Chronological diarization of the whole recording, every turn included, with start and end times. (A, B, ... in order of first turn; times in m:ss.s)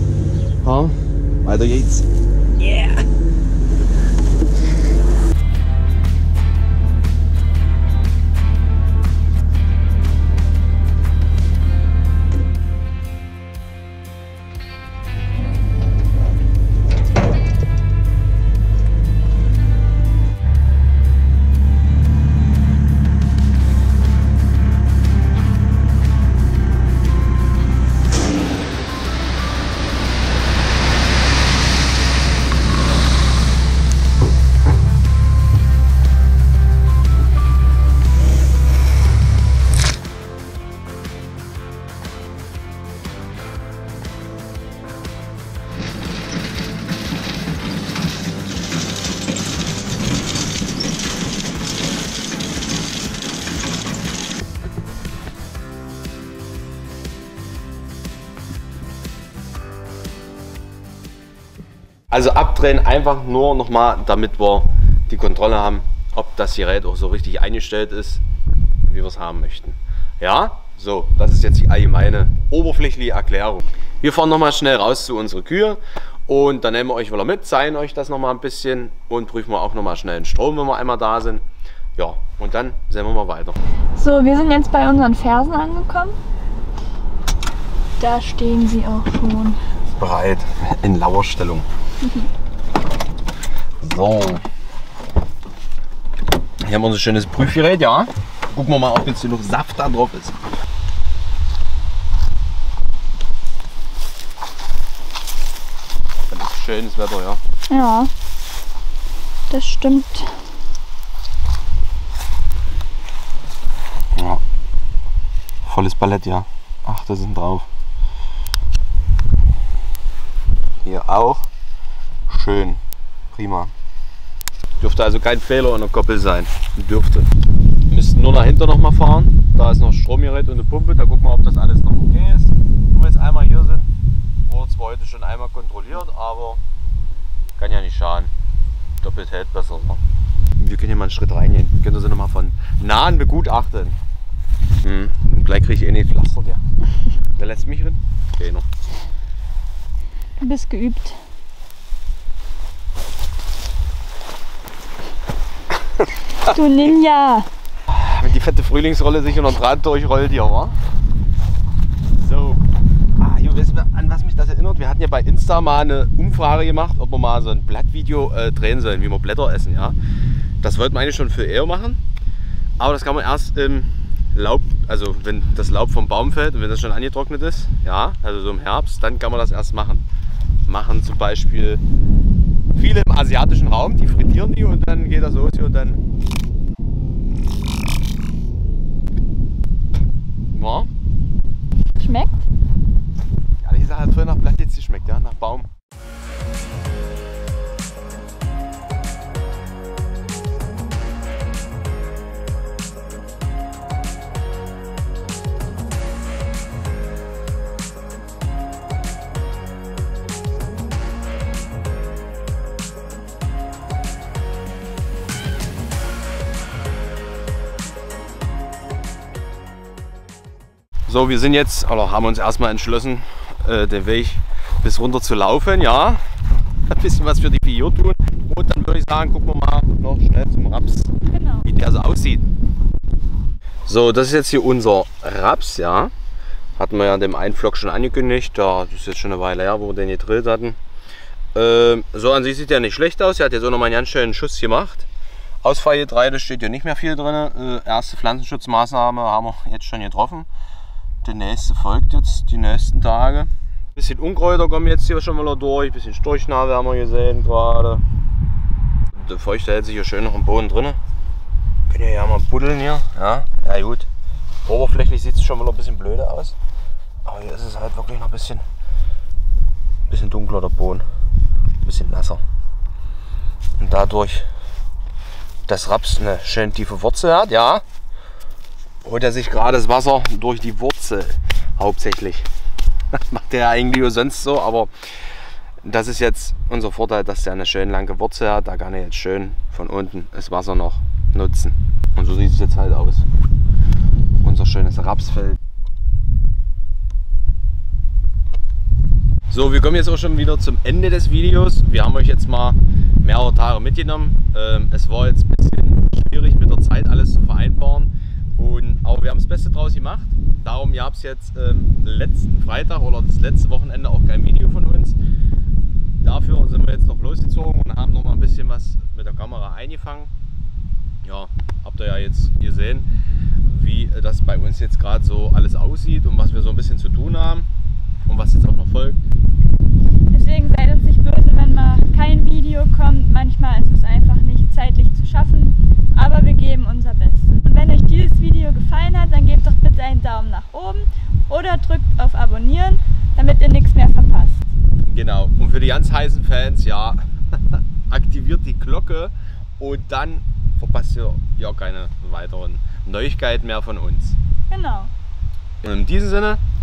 0:00.6-0:03.0 A
1:02.1-1:08.2 A
1:08.9-1:21.4 A
1:22.0-1:23.6 A
1:24.0-1:26.2 B
1:28.0-1:29.6 B
1:29.9-1:31.7 A
1:33.8-1:34.4 A
1:36.6-1:40.4 A
1:46.3-1:47.4 A
1:47.7-1:48.1 B
1:49.5-1:50.3 B
1:54.1-1:54.4 A
1:55.6-1:57.7 A
2:00.8-2:01.5 A
2:02.3-2:03.7 A
2:04.8-2:07.3 A
2:07.9-2:13.9 A
2:14.4-2:16.6 A
2:17.6-2:18.3 A
2:19.0-2:20.0 A
2:20.6-2:24.0 A
2:24.8-2:26.6 A
2:27.4-2:28.6 A
2:30.4-2:31.2 B
2:36.4-2:37.5 B
2:37.9-2:40.8 A
2:42.1-2:42.6 A
2:43.2-2:50.0 A
2:50.6-2:52.0 A
2:52.8-3:00.0 A
3:00.6-3:01.8 A
3:02.7-3:06.0 A
3:10.5-3:10.9 A
3:12.0-3:12.4 B
3:13.6-3:15.7 A
3:41.1-3:46.2 A
3:46.9-3:51.1 A
3:51.3-3:51.7 B
3:51.6-3:52.5 A
3:53.8-3:56.1 A
3:56.8-4:00.8 A
4:01.5-4:05.1 A
4:05.6-4:10.5 A
4:11.2-4:18.0 A
4:19.1-4:21.0 A
4:21.9-4:24.1 A
4:24.6-4:26.6 A
4:27.2-4:28.6 A
4:30.1-4:31.0 A
4:31.8-4:32.4 A
4:33.8-4:34.5 A
4:35.7-4:37.8 A
4:39.0-4:42.5 A
4:43.1-4:44.9 A
4:45.8-4:53.3 A
4:54.4-4:55.6 A
4:59.5-5:15.2 A
5:16.2-5:20.3 A
5:21.2-5:23.1 A
5:23.6-5:27.7 A
5:28.3-5:29.2 A
5:30.3-5:44.7 B
5:45.1-5:54.4 A
5:54.7-5:55.1 B
5:55.8-5:56.6 A